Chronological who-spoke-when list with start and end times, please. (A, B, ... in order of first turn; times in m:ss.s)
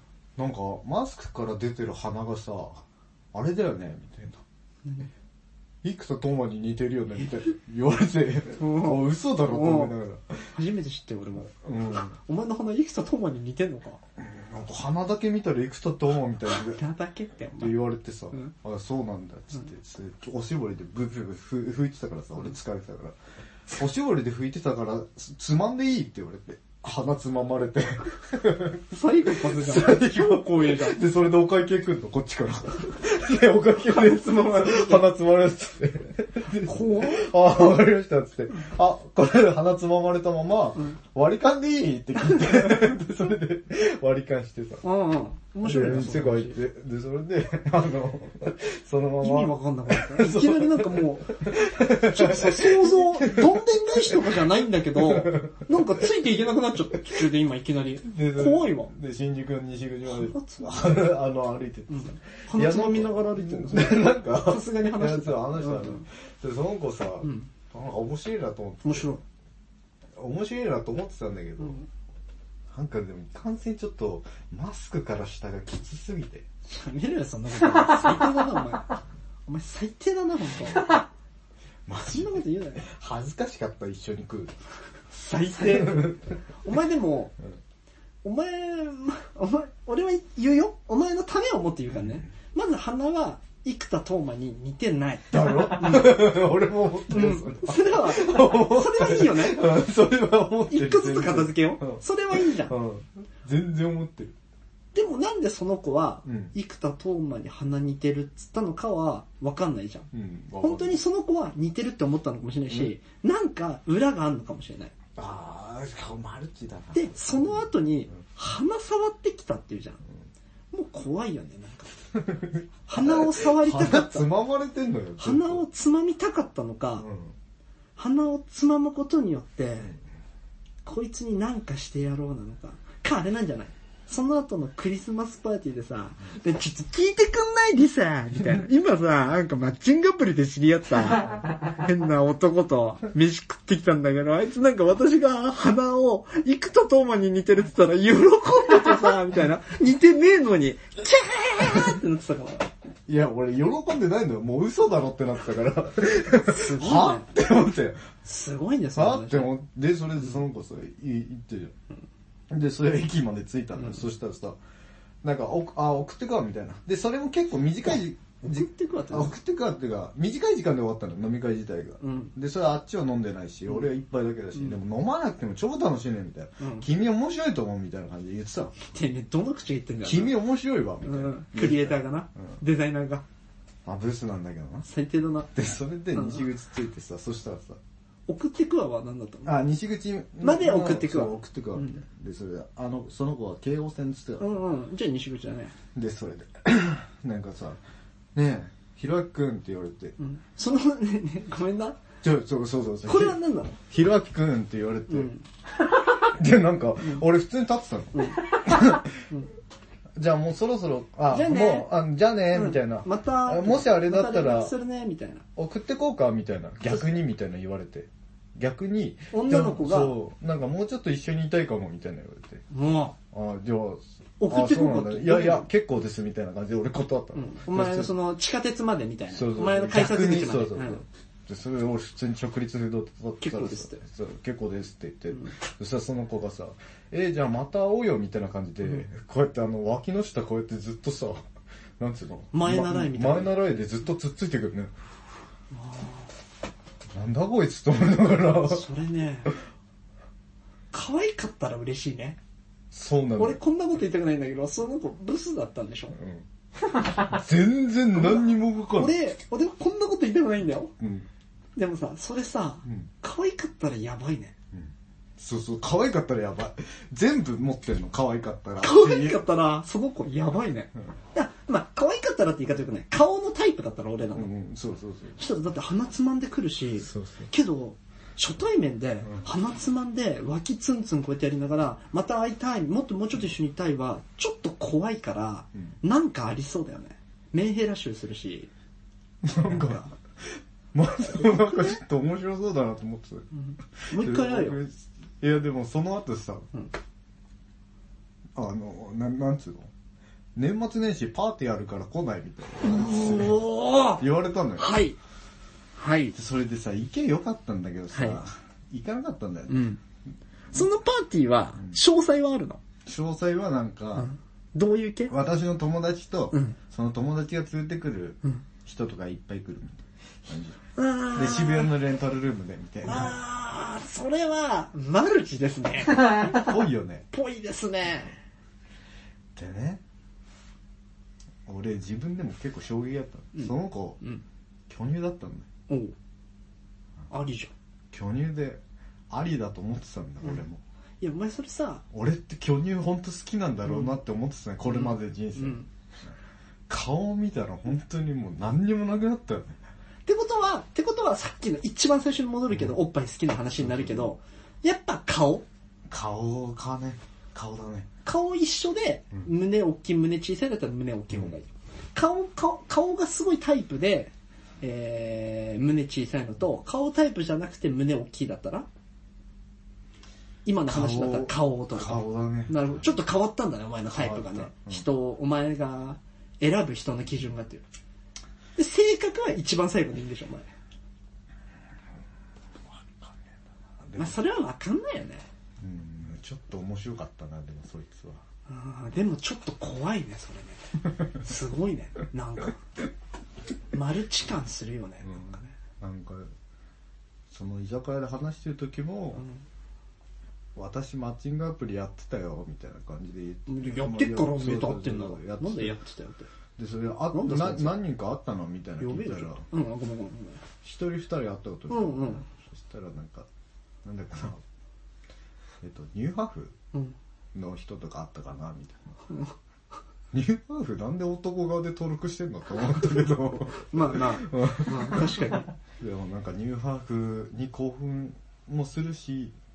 0:00.4-0:04.4 A
0:04.8-0:05.1 B
0:05.8-0:10.5 A
0:08.6-0:09.9 B
0:10.5-0:11.5 B
0:11.5-0:12.2 A
0:12.2-0:14.0 B
0:14.2-0:16.8 A
0:16.6-0:17.8 B
0:17.6-0:23.2 A
0:23.7-0:44.8 A
0:28.9-0:31.0 B
0:33.8-0:35.1 B
0:36.6-0:37.3 B
0:44.8-0:46.6 B
0:45.6-0:54.4 A
0:49.2-0:58.9 B
0:54.9-0:55.7 A
0:58.0-1:09.1 A
1:00.1-1:01.0 B
1:01.9-1:06.0 B
1:07.2-1:07.5 B
1:08.8-1:09.2 B
1:10.2-1:11.8 A
1:11.6-1:11.9 B
1:12.7-1:16.5 A
1:16.7-1:21.0 B
1:21.9-1:24.6 A
1:22.0-1:22.8 B
1:25.1-1:27.4 B
1:25.7-1:26.2 A
1:28.2-1:36.3 B
1:35.3-1:44.4 A
1:37.1-1:39.7 B
1:40.7-1:42.8 B
1:44.9-1:50.1 B
1:46.2-1:46.5 A
1:50.1-1:51.0 A
1:50.6-1:54.9 B
1:55.2-1:58.2 A
1:56.9-2:00.0 B
2:00.7-2:01.9 B
2:02.2-2:05.6 A
2:02.9-2:04.3 B
2:05.2-2:07.1 B
2:07.0-2:07.4 A
2:08.0-2:10.0 B
2:10.8-2:32.7 B
2:31.6-2:31.9 A
2:33.1-2:38.1 A
2:36.4-2:37.3 B
2:38.2-2:39.5 B
2:39.0-2:41.8 A
2:42.5-2:44.6 A
2:45.2-2:58.8 A
2:48.4-2:49.4 B
2:52.0-2:52.3 B
2:56.6-2:56.9 B
2:58.9-3:00.4 B
3:00.0-3:02.6 A
3:01.0-3:03.2 B
3:03.8-3:04.9 A
3:04.8-3:05.5 B
3:05.5-3:07.8 A
3:06.1-3:06.4 B
3:08.3-3:09.6 B
3:09.4-3:14.6 A
3:10.4-3:12.0 B
3:14.4-3:15.8 B
3:16.0-3:17.8 A
3:18.3-3:20.2 A
3:20.2-3:22.0 B
3:22.2-3:25.3 A
3:23.1-3:23.8 B
3:25.1-3:25.4 B
3:26.2-3:29.2 A
3:28.1-3:28.6 B
3:30.2-3:34.8 A
3:31.3-3:31.9 B
3:32.5-3:35.4 B
3:35.6-3:42.6 A
3:39.3-3:40.2 B
3:42.7-3:43.2 B
3:43.3-3:48.1 A
3:44.4-3:45.7 B
3:47.4-3:51.0 B
3:49.3-4:01.4 A
3:53.4-3:54.0 B
4:02.0-4:04.9 A
4:02.5-4:03.6 B
4:05.7-4:06.3 B
4:07.1-4:08.9 A
4:08.6-4:09.6 B
4:10.9-4:12.4 B
4:12.9-4:13.6 A
4:13.4-4:16.2 B
4:16.2-4:16.5 A
4:17.0-4:19.2 A
4:18.2-4:20.9 B
4:21.0-4:21.3 A
4:21.8-4:24.5 B
4:22.8-4:23.1 A
4:24.7-4:29.4 A
4:28.8-4:34.5 B
4:34.3-4:35.4 A
4:35.4-4:48.7 B
4:37.0-4:37.5 A
4:49.4-4:53.5 A
4:49.6-4:50.1 B
4:51.3-4:52.0 B
4:53.5-4:54.8 B
4:54.0-4:56.7 A
4:58.6-4:59.9 A
5:00.6-5:03.6 A
5:02.8-5:04.2 B
5:04.2-5:05.0 A
5:04.8-5:05.2 B
5:06.0-5:06.4 B
5:06.4-5:09.8 A
5:08.1-5:08.4 B
5:09.7-5:10.0 B
5:10.7-5:12.8 B
5:13.1-5:14.3 A
5:14.2-5:15.3 B
5:15.3-5:20.8 A
5:16.5-5:16.8 B
5:21.0-5:21.9 B
5:21.3-5:23.4 A
5:23.0-5:26.7 B
5:26.3-5:27.3 A
5:27.3-5:28.4 B
5:29.6-5:30.0 A
5:31.7-5:34.2 A
5:33.5-5:34.4 B
5:34.9-5:35.7 A
5:35.9-5:36.2 B
5:37.3-5:37.7 B
5:38.1-5:40.8 A
5:41.2-5:42.0 B
5:42.1-5:45.8 A
5:43.9-5:44.2 B
5:44.9-5:45.9 B
5:46.9-5:49.8 A
5:50.3-5:55.6 B
5:52.7-5:53.0 A
5:53.8-5:54.3 A
5:56.1-5:58.1 A
5:58.2-6:08.9 B
6:10.6-6:17.8 B
6:10.9-6:13.2 A
6:14.1-6:15.0 A
6:18.8-6:20.7 B
6:22.9-6:24.4 A
6:24.2-6:25.5 B
6:25.8-6:28.4 A
6:28.7-6:32.8 B
6:33.9-6:35.7 B
6:35.2-6:36.5 A
6:37.5-6:39.4 A
6:39.4-6:39.6 B
6:40.8-6:46.0 A
6:43.7-6:46.5 B
6:46.8-6:49.6 A
6:47.3-6:48.0 B
6:49.0-6:50.6 B
6:50.8-6:53.5 A
6:51.9-6:52.4 B
6:54.0-6:54.6 A
6:55.8-6:56.8 A
6:57.5-6:59.2 A
7:00.3-7:09.6 A
7:03.9-7:05.7 B